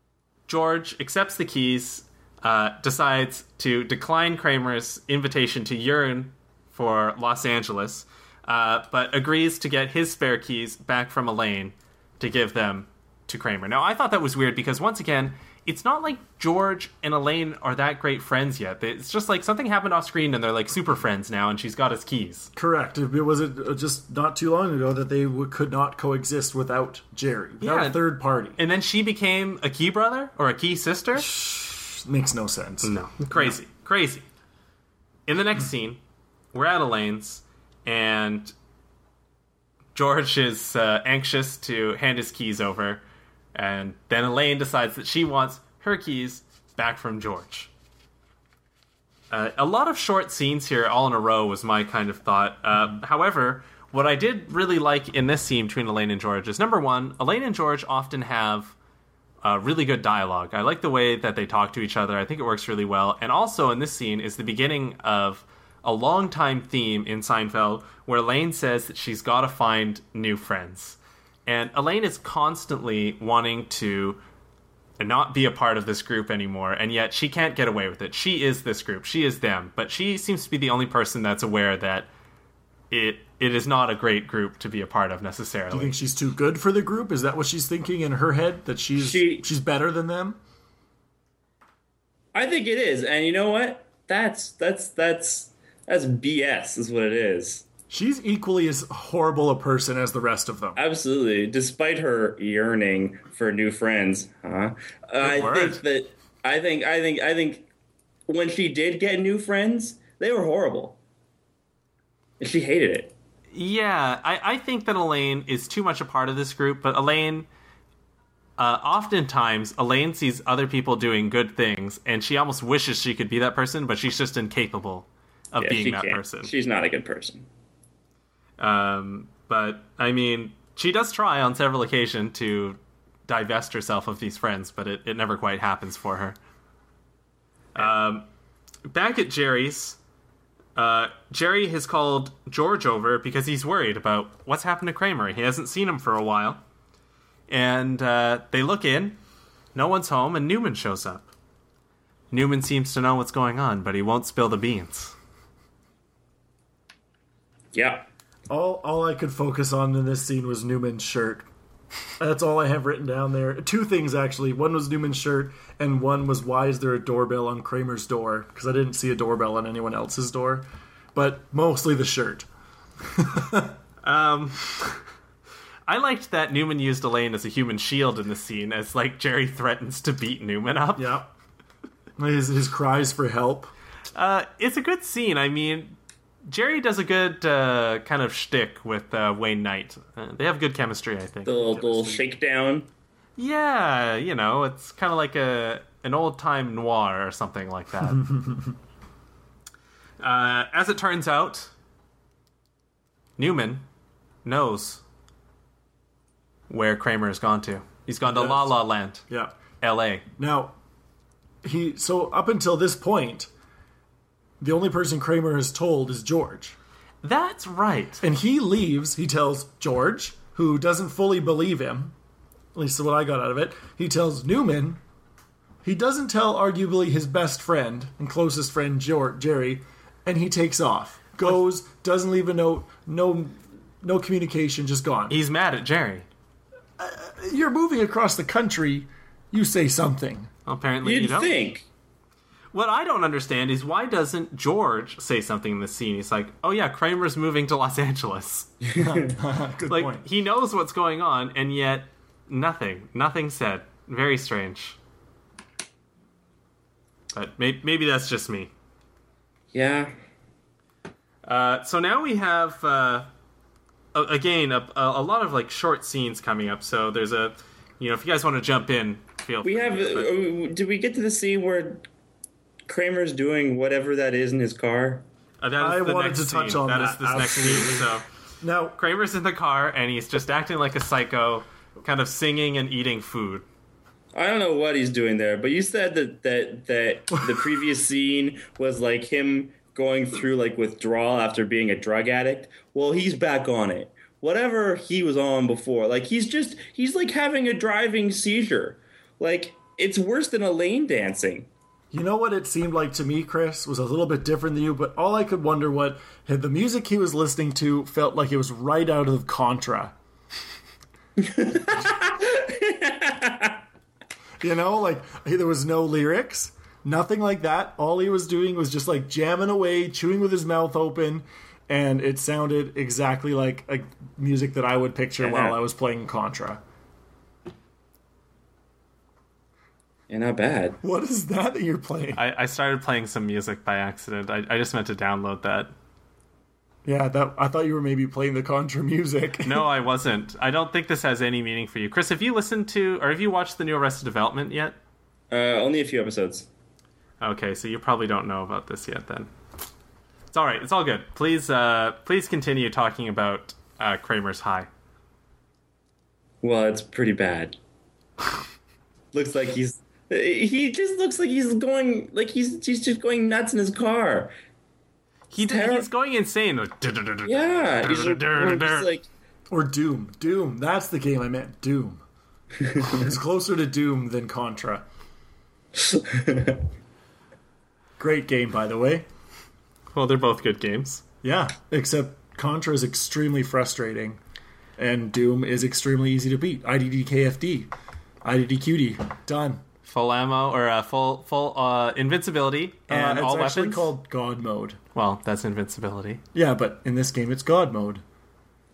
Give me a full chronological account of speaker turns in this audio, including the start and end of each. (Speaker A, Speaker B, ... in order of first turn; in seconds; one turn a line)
Speaker A: 0.5-22.5
Speaker B: 22.6-28.6
Speaker A: 27.6-28.0
Speaker A: 28.6-31.3
Speaker B: 31.2-33.6
Speaker A: 32.8-34.3
Speaker A: 35.3-36.0
Speaker A: 36.5-38.5
Speaker A: 40.0-43.0
Speaker A: 43.5-47.7
Speaker A: 49.3-58.8
Speaker A: 59.4-74.2
Speaker A: 75.0-82.1
Speaker A: 82.9-86.0
Speaker B: 85.7-90.4
Speaker C: 89.0-89.5
Speaker C: 92.3-97.7
Speaker B: 97.9-100.8
Speaker C: 100.8-107.7
Speaker A: 105.2-105.8
Speaker C: 108.3-111.0
Speaker C: 112.4-113.1
Speaker A: 113.5-117.5
Speaker A: 118.6-126.5
Speaker C: 125.6-127.5
Speaker A: 128.6-136.4
Speaker A: 137.8-138.3
Speaker A: 138.9-140.0
Speaker A: 140.8-146.6
Speaker A: 147.5-149.2
Speaker A: 149.8-151.3
Speaker A: 152.3-155.2
Speaker C: 157.7-158.1
Speaker B: 158.5-161.5
Speaker B: 162.2-172.5
Speaker B: 173.0-173.8
Speaker A: 174.0-175.0
Speaker A: 175.9-181.2
Speaker B: 181.0-181.3
Speaker B: 182.2-183.7
Speaker A: 184.2-192.2
Speaker C: 191.5-192.9
Speaker A: 193.4-198.4
Speaker A: 200.2-201.7
Speaker A: 203.4-203.8
Speaker A: 204.4-205.0
Speaker A: 206.7-209.3
Speaker B: 208.2-208.7
Speaker B: 209.3-209.6
Speaker A: 209.8-210.3
Speaker B: 210.4-210.8
Speaker B: 211.6-213.5
Speaker B: 214.6-216.8
Speaker A: 217.2-218.2
Speaker B: 218.2-222.2
Speaker B: 222.8-225.0
Speaker B: 225.8-235.4
Speaker A: 235.3-236.3
Speaker B: 237.0-240.5
Speaker A: 240.7-241.6
Speaker C: 241.0-241.9
Speaker A: 242.7-248.7
Speaker C: 248.8-249.3
Speaker B: 248.9-250.2
Speaker A: 249.9-255.0
Speaker A: 257.3-258.7
Speaker C: 259.7-260.1
Speaker A: 261.4-263.3
Speaker A: 264.1-270.3
Speaker C: 269.6-272.1
Speaker C: 272.9-275.2
Speaker A: 275.6-278.2
Speaker B: 275.8-279.0
Speaker A: 279.0-283.6
Speaker C: 284.3-301.7
Speaker B: 302.1-310.1
Speaker C: 311.4-313.8
Speaker B: 314.6-326.8
Speaker C: 325.5-325.7
Speaker C: 330.3-331.0
Speaker B: 331.0-332.4
Speaker A: 332.4-335.9
Speaker B: 337.1-339.9
Speaker A: 339.6-345.0
Speaker C: 345.5-346.7
Speaker A: 347.4-349.5
Speaker A: 350.5-354.9
Speaker C: 356.6-357.8
Speaker C: 359.3-364.5
Speaker A: 365.5-369.1
Speaker C: 365.6-366.1
Speaker C: 367.5-369.3
Speaker B: 369.7-372.2
Speaker C: 372.9-373.1
Speaker B: 373.0-375.1
Speaker C: 376.0-376.8
Speaker B: 378.2-379.3
Speaker A: 380.1-381.2
Speaker B: 381.4-384.4
Speaker B: 385.0-387.9
Speaker B: 388.4-389.8
Speaker A: 390.1-394.1
Speaker B: 393.1-395.0
Speaker A: 395.1-396.4
Speaker B: 396.5-398.2